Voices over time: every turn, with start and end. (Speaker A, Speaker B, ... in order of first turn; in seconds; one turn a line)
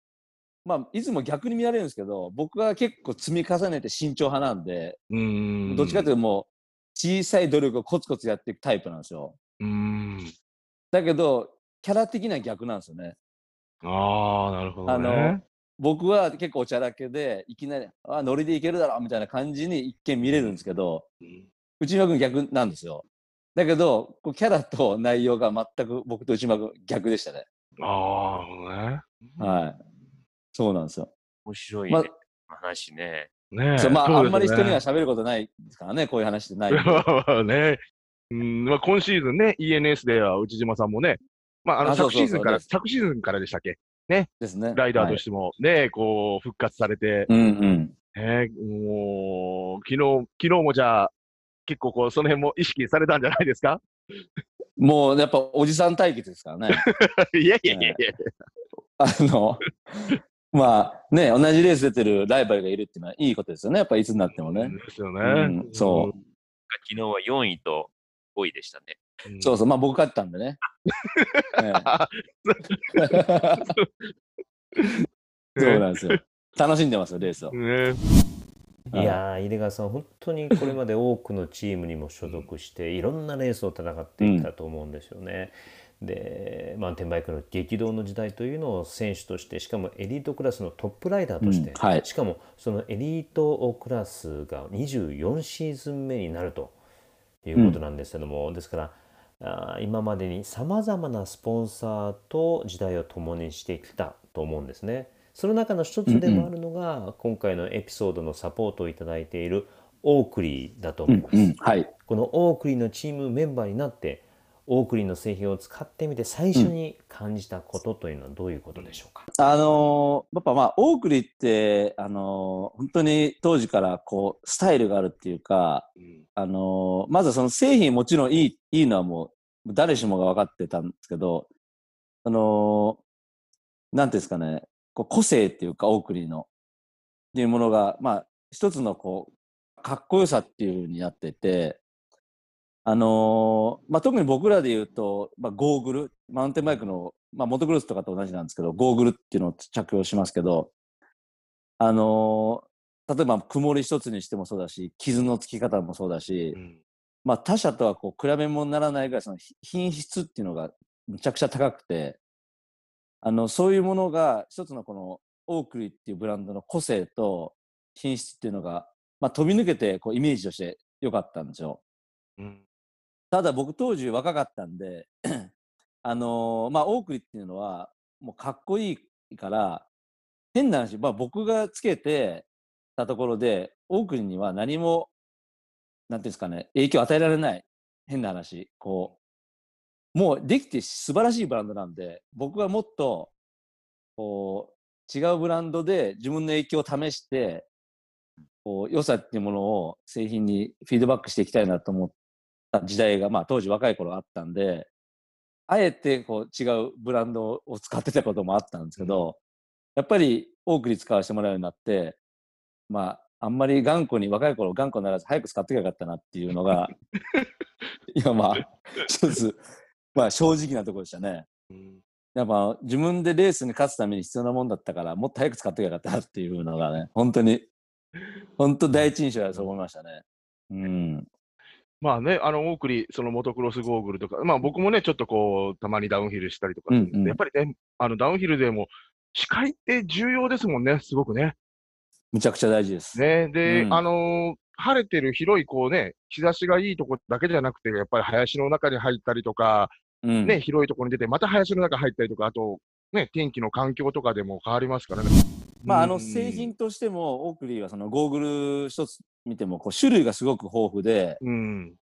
Speaker A: 0.7-5.0
Speaker B: 5.1-6.1
Speaker A: 5.7-9.4
Speaker B: 9.6-10.3
Speaker A: 10.9-13.2
Speaker B: 13.8-15.4
Speaker A: 14.9-21.1
Speaker A: 21.8-27.5
Speaker B: 27.8-29.7
Speaker A: 29.4-29.8
Speaker A: 30.5-31.1
Speaker C: 31.5-33.3
Speaker B: 33.5-34.8
Speaker A: 33.8-37.0
Speaker B: 36.7-37.8
Speaker B: 38.3-47.3
Speaker A: 41.8-42.6
Speaker A: 44.4-45.2
Speaker A: 47.3-47.9
Speaker B: 48.1-51.1
Speaker B: 51.7-53.8
Speaker A: 54.8-56.8
Speaker B: 56.7-58.3
Speaker A: 57.7-58.0
Speaker A: 59.0-66.1
Speaker B: 64.4-66.2
Speaker C: 66.7-69.0
Speaker B: 69.3-69.5
Speaker A: 69.4-70.6
Speaker B: 71.2-74.1
Speaker A: 71.6-71.9
Speaker A: 73.0-73.7
Speaker B: 74.8-75.0
Speaker B: 75.6-76.2
Speaker A: 75.6-77.6
Speaker B: 77.5-78.0
Speaker A: 78.9-79.2
Speaker D: 78.9-96.8
Speaker A: 84.2-84.5
Speaker A: 91.4-92.0
Speaker D: 97.4-119.3
Speaker A: 106.1-106.5
Speaker A: 111.1-111.9
Speaker A: 119.3-131.5
Speaker A: 132.2-133.0
Speaker A: 133.9-136.5
Speaker A: 137.3-141.8
Speaker A: 142.8-150.7
Speaker A: 151.8-156.6
Speaker A: 157.2-162.2
Speaker A: 163.2-171.8
Speaker A: 173.3-179.9
Speaker A: 180.5-182.5
Speaker A: 183.0-185.1
Speaker A: 186.1-189.1
Speaker A: 190.1-193.3
Speaker A: 194.2-197.7
Speaker A: 198.7-202.1
Speaker A: 202.7-204.9
Speaker A: 205.7-209.4
Speaker B: 209.0-209.3
Speaker A: 210.0-212.2
Speaker A: 212.9-216.9
Speaker A: 218.2-219.6
Speaker A: 220.2-221.5
Speaker B: 221.7-222.0
Speaker A: 222.3-227.7
Speaker A: 228.6-231.3
Speaker B: 228.9-229.7
Speaker B: 232.0-241.6
Speaker A: 236.9-237.4
Speaker A: 242.3-244.0
Speaker B: 243.2-249.9
Speaker A: 250.2-250.6
Speaker B: 250.4-256.7
Speaker A: 255.9-261.4
Speaker B: 261.4-262.0